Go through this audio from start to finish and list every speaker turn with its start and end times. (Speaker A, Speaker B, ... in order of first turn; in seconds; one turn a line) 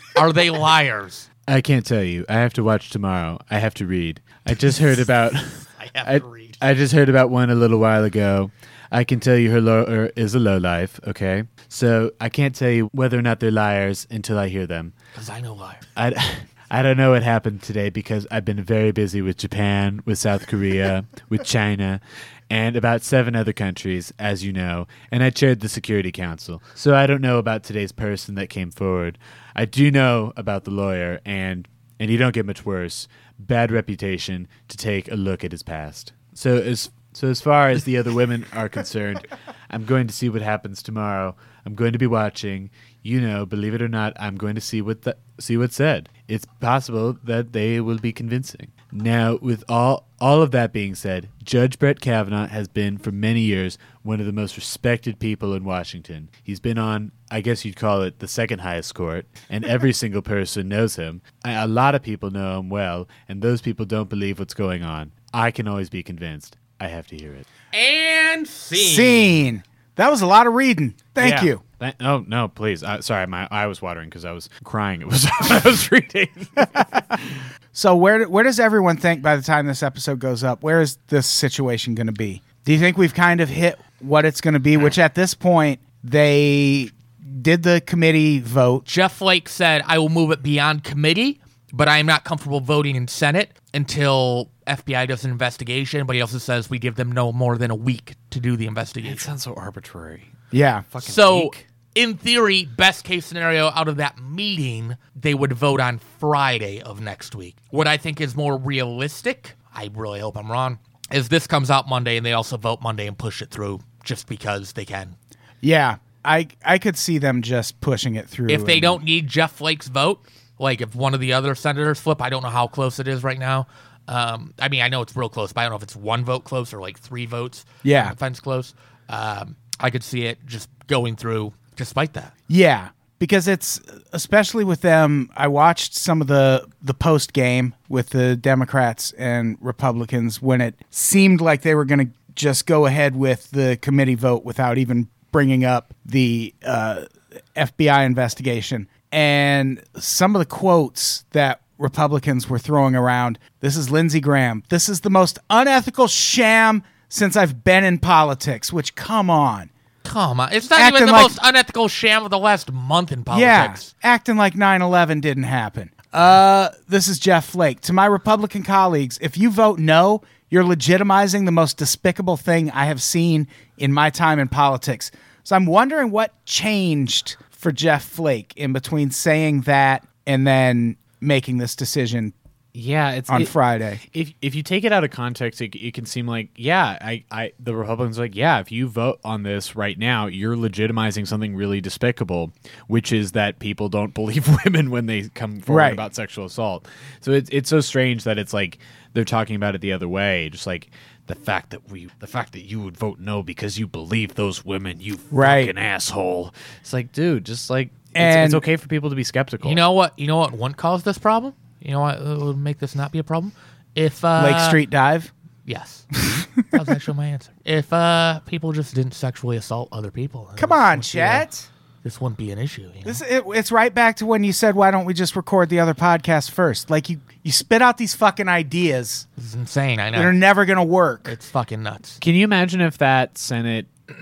Speaker A: 0.2-1.3
Speaker B: 1.5-14.9
Speaker A: 5.8-6.6
Speaker A: 15.2-15.8
Speaker B: 16.0-67.5
Speaker A: 67.7-69.4
Speaker C: 68.7-71.6
Speaker B: 71.2-77.4
Speaker C: 77.7-88.9
Speaker A: 88.9-99.3
Speaker B: 99.0-100.3
Speaker C: 100.5-100.8
Speaker B: 100.9-101.6
Speaker A: 101.0-115.2
Speaker C: 115.6-119.0
Speaker A: 118.5-132.3
Speaker C: 127.8-128.2
Speaker C: 132.5-159.7
Speaker A: 160.0-163.9
Speaker C: 160.7-161.4
Speaker C: 163.3-182.3
Speaker B: 182.8-183.6
Speaker C: 183.3-184.0
Speaker B: 184.1-209.8
Speaker C: 195.7-196.0
Speaker C: 205.3-205.7
Speaker C: 208.1-208.6
Speaker A: 209.6-214.8
Speaker C: 214.4-215.3
Speaker A: 215.7-216.1
Speaker A: 216.7-221.5
Speaker C: 220.6-221.7
Speaker A: 222.0-223.2
Speaker C: 223.1-229.3
Speaker A: 229.4-230.4
Speaker C: 230.1-231.3
Speaker A: 231.2-232.2
Speaker B: 232.2-233.9